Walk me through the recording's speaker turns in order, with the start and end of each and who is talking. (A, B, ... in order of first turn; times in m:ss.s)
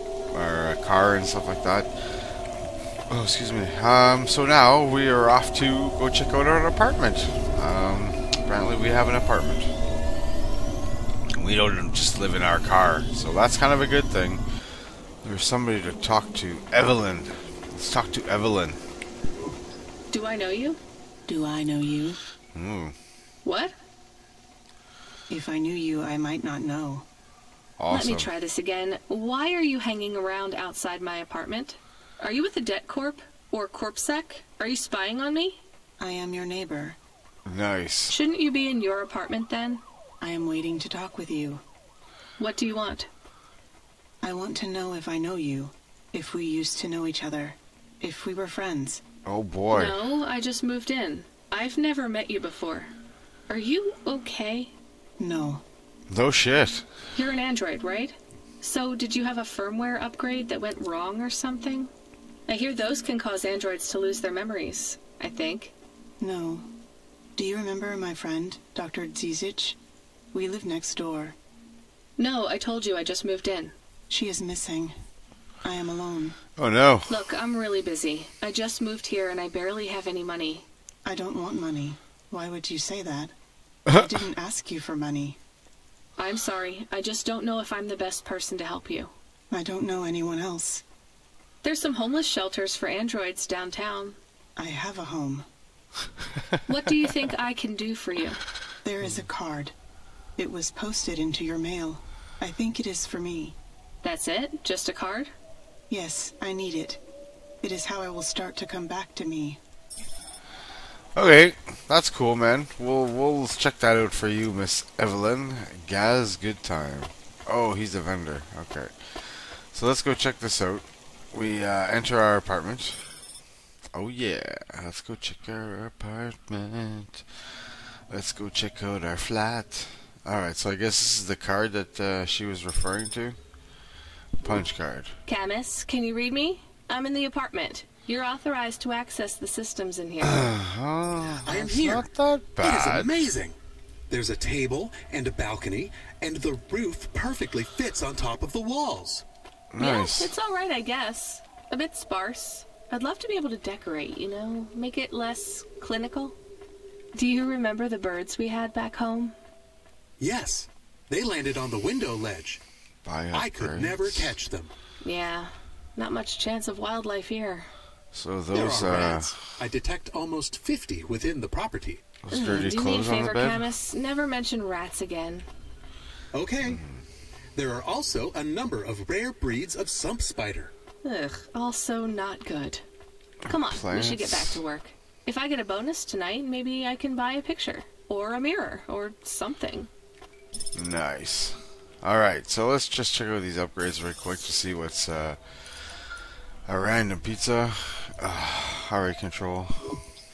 0:00.3-0:02.3 A
0:03.1-0:09.7 A
0:11.3-0:14.4 A
0:15.2-0:18.8 A
0:20.1-0:20.8 B
0:21.3-0:22.2 C
0:22.5-0:22.9 A
0:23.4-0:23.7 B
0:25.3-0:27.0 C
0:27.8-0:28.3 A
0:27.9-0:35.6 B
0:36.0-0:37.0 C
0:37.4-0:38.2 A
0:38.1-0:39.8 B
0:40.2-0:41.6 C
0:42.4-0:43.1 B
0:44.2-0:49.0 C
0:49.2-0:50.0 A
0:49.7-0:52.9 B
0:53.5-0:54.7 B
0:55.2-0:55.6 C
0:56.1-0:56.8 A
0:57.1-1:01.9 B
1:02.5-1:05.7 B
1:06.2-1:06.7 C
1:07.4-1:09.8 C
1:10.3-1:11.4 C
1:12.2-1:13.7 B
1:14.1-1:14.9 C
1:15.6-1:16.4 C
1:16.6-1:17.1 A
1:17.1-1:20.6 B
1:21.0-1:23.3 C
1:23.9-1:25.4 C
1:26.2-1:29.1 B
1:29.5-1:30.8 C
1:31.6-1:34.2 B
1:34.6-1:35.4 C
1:36.7-1:38.4 B
1:38.8-1:39.7 C
1:40.4-1:43.6 C
1:44.0-1:45.3 B
1:45.9-1:47.0 C
1:47.6-1:49.6 C
1:51.2-2:03.0 A
2:03.9-2:07.2 A
2:08.1-2:13.4 A
2:14.4-2:15.1 A
2:15.2-2:20.5 B
2:20.2-2:23.3 A
2:21.4-2:22.1 D
2:22.6-2:23.6 D
2:24.1-2:29.2 D
2:29.7-2:30.3 A
2:29.8-2:36.4 B
2:37.1-2:39.3 B
2:40.2-2:42.6 D
2:43.0-2:44.3 A
2:43.3-2:44.7 D
2:45.0-2:47.7 B
2:48.1-2:49.6 A
2:48.5-2:52.0 D
2:52.2-2:53.6 A
2:52.3-2:55.5 B
2:56.3-2:56.8 D
2:56.6-2:57.0 A
2:57.6-3:00.7 D
3:01.0-3:02.8 B
3:03.5-3:04.6 A
3:03.5-3:09.9 B
3:10.7-3:16.1 A
3:16.6-3:19.9 A